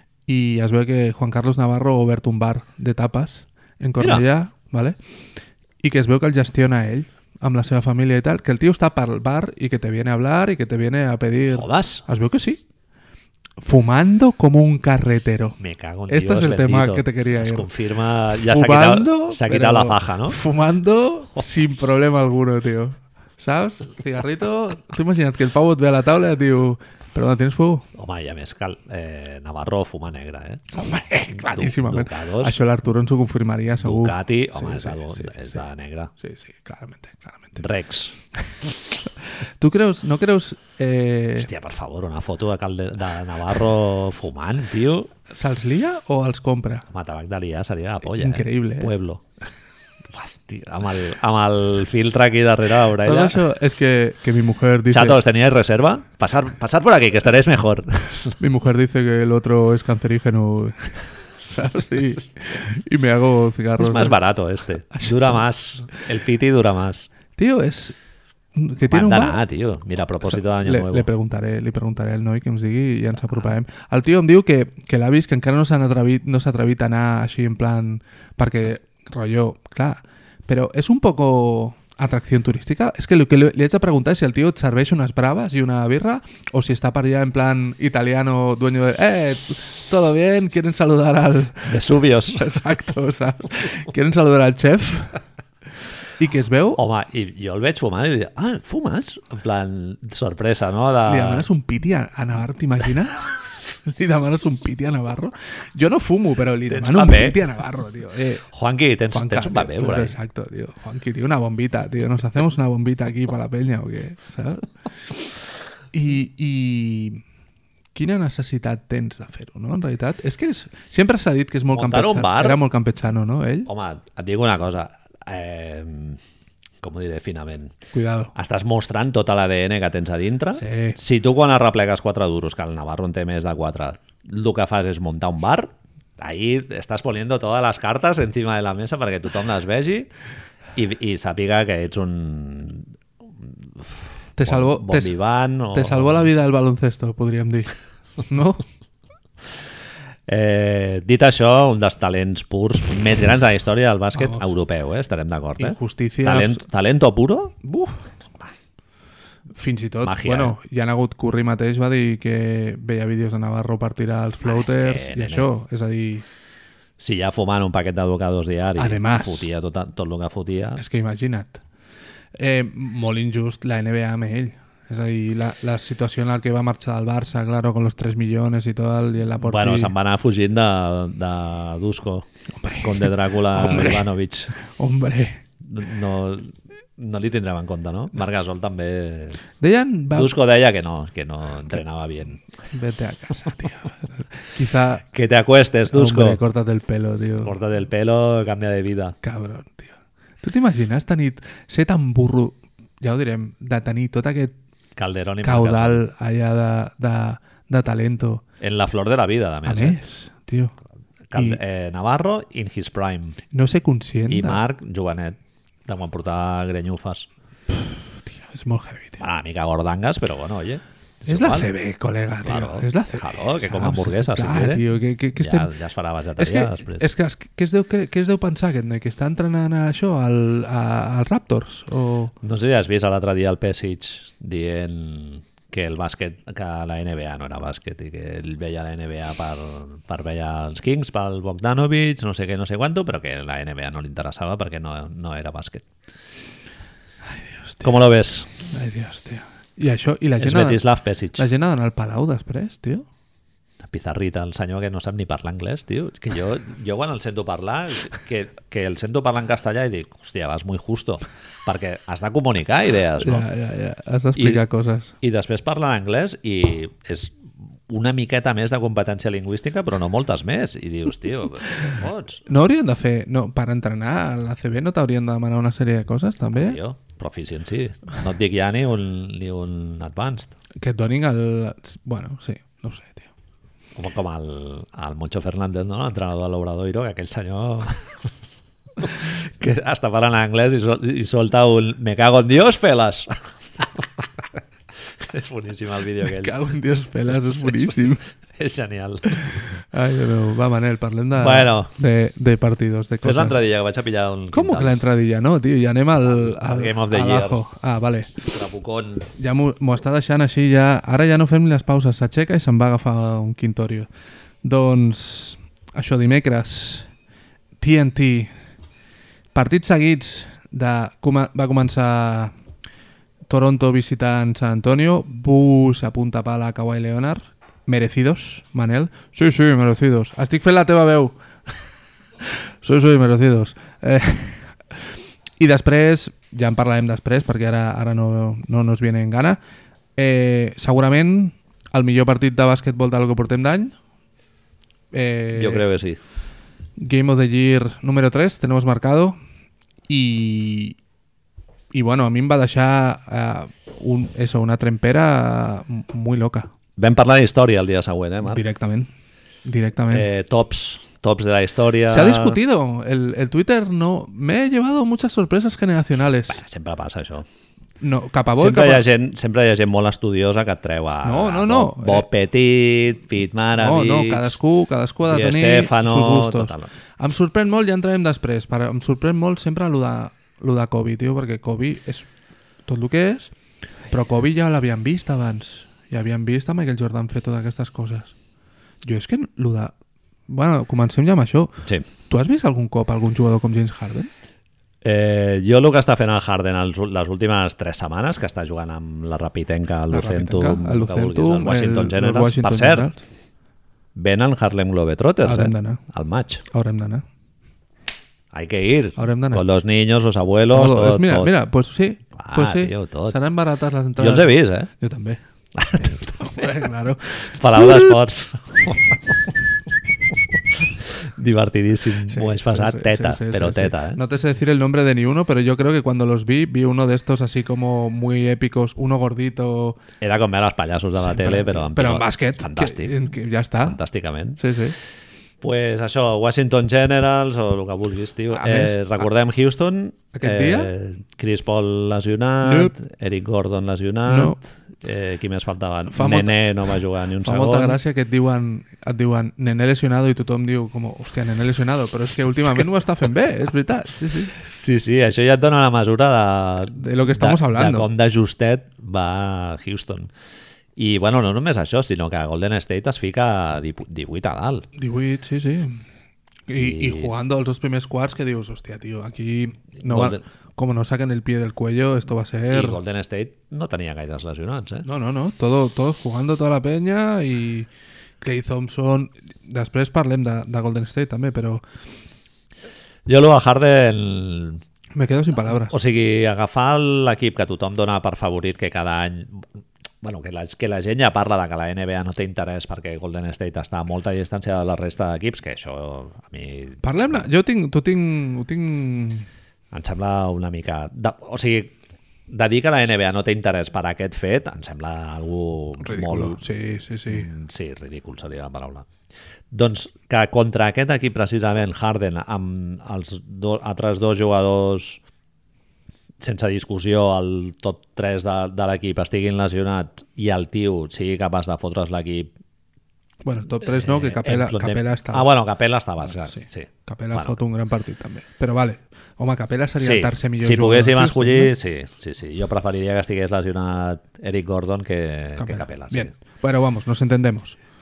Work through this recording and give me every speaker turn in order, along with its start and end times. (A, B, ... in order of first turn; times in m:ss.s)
0:00.2-0:05.0 A
0:04.0-0:04.2 B
0:05.8-0:12.6 A
0:11.5-0:12.0 B
0:13.6-0:17.7 A
0:15.6-0:20.4 B
0:18.3-0:27.9 A
0:27.9-0:32.6 B
0:30.7-0:35.3 A
0:33.8-0:36.1 B
0:36.2-0:37.6 A
0:37.6-0:38.1 B
0:39.2-0:41.5 A
0:41.4-0:45.1 B
0:45.3-0:46.8 A
0:46.9-0:49.2 B
0:48.0-0:48.9 A
0:50.1-0:53.4 B
0:53.0-0:55.2 A
0:54.9-0:58.4 B
0:58.4-1:04.2 A
1:03.8-1:07.1 B
1:04.9-1:05.2 A
1:07.4-1:08.0 A
1:08.5-1:09.4 A
1:08.9-1:11.1 B
1:10.2-1:35.2 A
1:31.6-1:32.6 B
1:36.2-1:36.8 A
1:36.8-1:41.4 B
1:41.0-1:48.4 A
1:46.7-1:47.4 B
1:48.5-1:50.2 B
1:49.1-1:54.7 A
1:55.9-1:57.2 A
1:57.9-2:03.7 A
2:01.7-2:02.6 B
2:03.7-2:06.2 B
2:06.8-2:07.7 B
2:07.9-2:08.3 A
2:08.3-2:20.1 B
2:10.6-2:11.0 A
2:20.7-2:22.9 B
2:23.4-2:26.3 B
2:24.4-2:25.1 A
2:25.7-2:28.6 A
2:30.3-2:37.6 B
2:34.1-2:34.5 A
2:35.6-2:36.6 A
2:37.6-2:38.0 A
2:39.6-2:46.2 A
2:40.0-2:40.5 B
2:44.4-2:45.5 B
2:47.0-2:50.8 B
2:48.8-2:49.4 A
2:50.8-2:51.6 A
2:52.3-2:59.9 A
2:59.4-3:02.3 B
3:02.6-3:05.4 A
3:02.8-3:04.5 B
3:05.6-3:09.4 B
3:09.6-3:10.3 A
3:10.1-3:12.4 B
3:12.7-3:15.0 A
3:15.1-3:16.4 B
3:15.9-3:17.5 A
3:17.4-3:19.2 B
3:19.2-3:24.5 A
3:25.0-3:26.0 B
3:25.4-3:28.4 A
3:28.6-3:30.0 B
3:29.6-3:30.7 A
3:31.3-3:33.4 B
3:31.3-3:31.6 A
3:33.5-3:34.6 A
3:34.3-3:37.3 B
3:37.7-3:39.2 A
3:39.2-3:41.7 B
3:41.3-3:45.7 A
3:42.4-3:44.8 B
3:45.4-3:47.0 B
3:46.4-3:52.3 A
3:52.4-4:05.9 B
4:07.3-4:07.9 A
4:07.8-4:08.5 B
4:08.7-4:10.8 A
4:10.4-4:11.4 B
4:11.4-4:13.0 A
4:13.8-4:23.5 B
4:23.2-4:25.1 A
4:24.4-4:24.6 B
4:25.2-4:32.4 B
4:32.5-4:36.8 A
4:36.5-4:40.5 B
4:40.8-4:43.3 A
4:44.0-4:48.2 B
4:49.0-4:56.5 B
4:56.2-4:58.2 A
4:57.3-4:59.6 B
4:59.3-5:03.6 A
5:01.4-5:01.9 B
5:03.2-5:05.0 B
5:04.5-5:08.4 A
5:06.2-5:07.6 B
5:08.4-5:09.3 B
5:09.4-5:14.1 A
5:14.6-5:17.1 A
5:17.8-5:18.5 A
5:19.5-5:22.5 A
5:23.5-5:31.3 A
5:32.8-5:34.7 A
5:35.6-5:39.6 A
5:40.2-5:43.9 A
5:45.1-5:45.8 A
5:45.5-5:46.2 B
5:47.0-5:49.4 A
5:50.1-5:51.0 A
5:51.9-5:56.7 A
5:57.0-5:58.6 B
5:58.4-5:59.1 A
5:59.6-6:00.3 A
6:00.1-6:02.6 B
6:02.1-6:06.6 A
6:06.5-6:07.5 B
6:08.0-6:09.0 A
6:08.6-6:14.6 B
6:11.2-6:12.2 A
6:13.7-6:22.3 A
6:15.2-6:16.9 B
6:22.8-6:23.5 A
6:24.1-6:28.3 A
6:29.0-6:29.9 A
6:30.5-6:34.3 A
6:35.0-6:43.1 B
6:40.1-6:43.2 A
6:44.1-6:46.6 B
6:45.4-6:46.0 A
6:46.7-6:47.2 A
6:48.5-6:51.5 B
6:49.2-6:49.6 A
6:50.7-6:55.4 A
6:52.4-6:53.4 B
6:54.2-6:54.9 B
6:55.8-6:56.7 B
6:56.0-6:58.2 A
6:57.4-6:59.5 B
7:00.3-7:04.2 B
7:02.3-7:10.0 A
7:10.2-7:13.1 B
7:11.2-7:14.0 A
7:13.8-7:14.6 B
7:14.6-7:14.9 A
7:15.6-7:28.0 B
7:18.5-7:19.0 A
7:20.3-7:20.9 A
7:22.6-7:22.9 A
7:24.3-7:24.6 A
7:26.1-7:26.6 A
7:27.4-7:34.5 A
7:34.6-7:40.3 B
7:36.9-7:38.1 A
7:41.0-7:44.9 B
7:45.0-7:46.0 A
7:46.7-7:53.0 A
7:46.7-7:47.3 B
7:50.0-7:50.4 B
7:52.7-7:55.0 B
7:55.0-7:57.9 A
7:58.4-8:01.8 A
8:03.2-8:04.8 B
8:05.1-8:05.9 A
8:05.6-8:09.7 B
8:10.2-8:17.0 B
8:17.0-8:19.5 A
8:19.9-8:21.9 B
8:22.5-8:26.6 B
8:26.0-8:27.5 A
8:27.3-8:29.1 B
8:29.7-8:35.2 B
8:36.4-8:42.5 B
8:43.4-8:45.5 A
8:43.9-8:47.6 B
8:46.4-8:51.7 A
8:50.0-8:56.3 B
8:55.6-8:57.8 A